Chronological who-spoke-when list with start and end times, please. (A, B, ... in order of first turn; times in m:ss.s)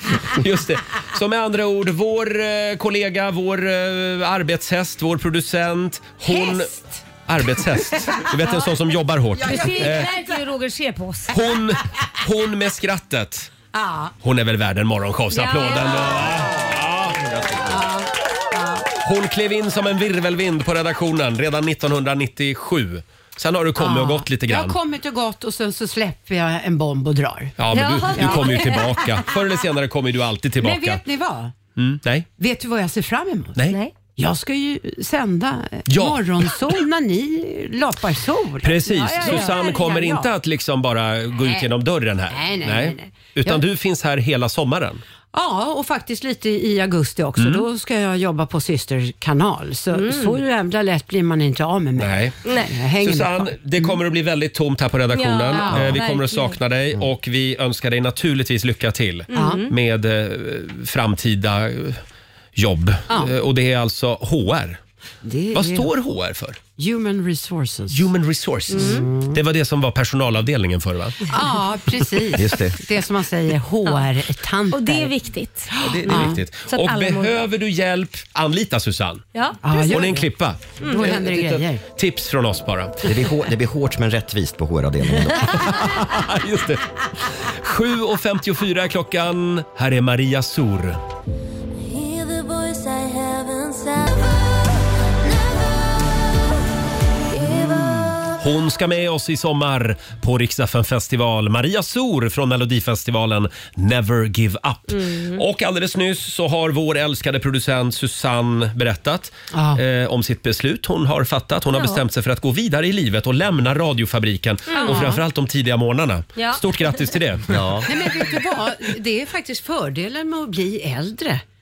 0:00.2-0:10.1 A
0:06.3-0:06.9 B
0:09.4-0:10.4 B
0:09.4-0:11.3 C
0:11.3-0:13.5 A
0:13.7-0:14.1 B
0:14.2-0:17.5 A
0:15.3-0:16.3 C
0:15.8-0:16.8 B
0:17.6-0:18.9 B
0:19.0-0:24.8 A
0:23.8-0:27.6 B
0:27.6-0:31.0 A
0:27.7-0:29.0 C
0:28.1-0:28.6 B
0:30.6-0:31.5 B
0:31.8-0:32.3 A
0:32.4-0:40.3 B
0:35.9-0:36.8 A
0:38.6-0:45.0 A
0:39.2-0:39.6 C
0:41.4-0:41.7 B
0:42.3-0:43.6 B
0:45.3-0:53.9 B
0:47.4-0:47.6 A
0:49.9-0:50.4 C
0:52.0-1:02.0 A
0:52.4-0:52.7 C
0:55.1-0:56.6 C
0:55.5-0:56.0 B
0:59.3-0:59.7 C
0:59.3-0:59.7 B
1:02.6-1:04.8 A
1:03.1-1:03.3 B
1:05.2-1:05.9 B
1:05.5-1:06.6 A
1:06.8-1:08.1 B
1:07.9-1:11.3 A
1:08.7-1:09.0 C
1:08.7-1:09.4 B
1:11.3-1:15.1 B
1:12.4-1:12.8 D
1:14.7-1:17.4 C
1:15.7-1:16.4 B
1:15.8-1:19.3 A
1:19.3-1:20.0 C
1:19.6-1:20.3 B
1:19.9-1:23.0 A
1:20.8-1:21.1 C
1:20.8-1:21.8 B
1:23.0-1:25.8 D
1:25.5-1:31.0 A
1:31.8-1:36.6 E
1:37.3-1:38.4 E
1:37.4-1:57.6 A
1:44.9-1:45.4 C
1:49.5-1:49.8 B
1:51.7-1:52.0 C
1:54.7-1:55.1 C
1:54.8-1:55.2 B
1:56.4-1:56.6 C
1:57.5-1:57.9 D
1:57.8-2:01.4 B